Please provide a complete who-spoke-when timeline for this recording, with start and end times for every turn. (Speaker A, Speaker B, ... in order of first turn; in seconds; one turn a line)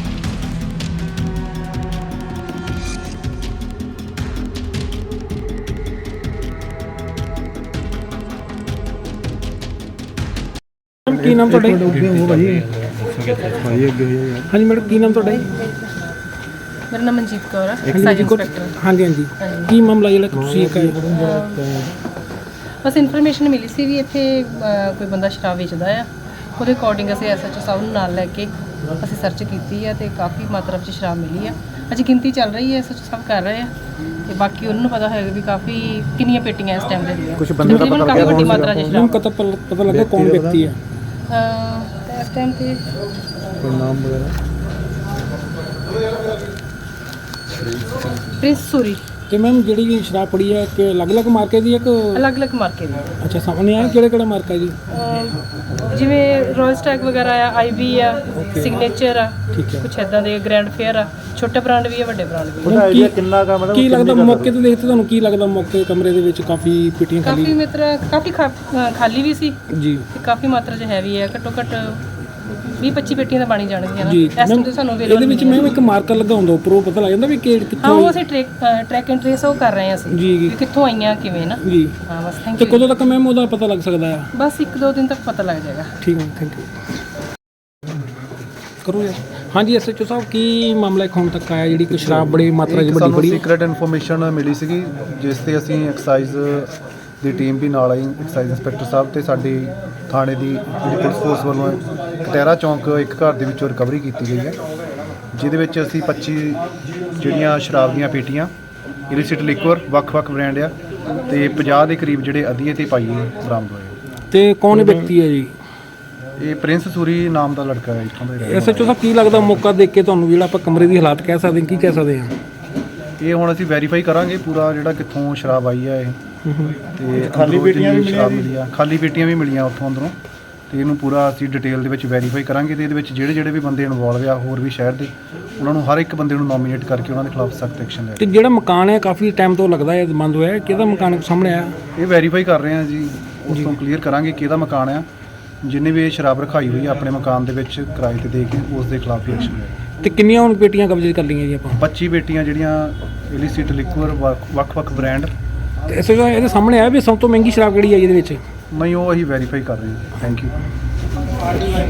Speaker A: 11.1-11.9
Speaker B: 11.1-14.5
Speaker A: 14.5-15.5
Speaker C: 16.9-18.7
Speaker A: 17.9-21.0
Speaker C: 19.4-19.7
Speaker B: 20.3-21.9
Speaker C: 21.1-21.8
Speaker C: 22.8-33.7
Speaker C: 34.2-39.2
Speaker B: 37.4-39.1
Speaker A: 37.6-40.8
Speaker B: 39.8-40.7
Speaker C: 41.3-42.8
Speaker B: 43.6-44.3
Speaker B: 47.6-48.1
Speaker C: 48.4-49.0
Speaker A: 49.3-52.2
Speaker C: 52.1-53.0
Speaker A: 53.2-54.8
Speaker C: 54.9-62.8
Speaker A: 59.5-59.9
Speaker B: 62.6-64.5
Speaker A: 62.7-63.2
Speaker A: 63.7-67.6
Speaker C: 67.2-69.6
Speaker A: 69.7-70.1
Speaker C: 70.1-72.0
Speaker C: 72.8-75.8
Speaker A: 74.0-78.2
Speaker C: 77.8-82.9
Speaker A: 80.1-80.5
Speaker A: 81.6-82.0
Speaker A: 82.5-84.3
Speaker C: 84.3-85.9
Speaker A: 86.0-86.7
Speaker A: 88.8-93.5
Speaker D: 91.9-104.5
Speaker D: 105.3-106.6
Speaker D: 107.2-108.5
Speaker D: 109.1-110.7
Speaker D: 111.3-114.0
Speaker A: 114.3-115.5
Speaker D: 116.4-119.0
Speaker A: 118.4-122.3
Speaker D: 123.2-126.2
Speaker A: 126.4-126.7
Speaker D: 127.0-130.2
Speaker B: 127.2-128.5
Speaker D: 130.7-138.3
Speaker A: 138.2-141.7
Speaker D: 141.9-145.1
Speaker A: 143.5-143.7
Speaker D: 145.6-149.7
Speaker A: 150.0-151.8
Speaker D: 151.7-155.3
Speaker A: 155.9-158.4
Speaker D: 158.7-160.5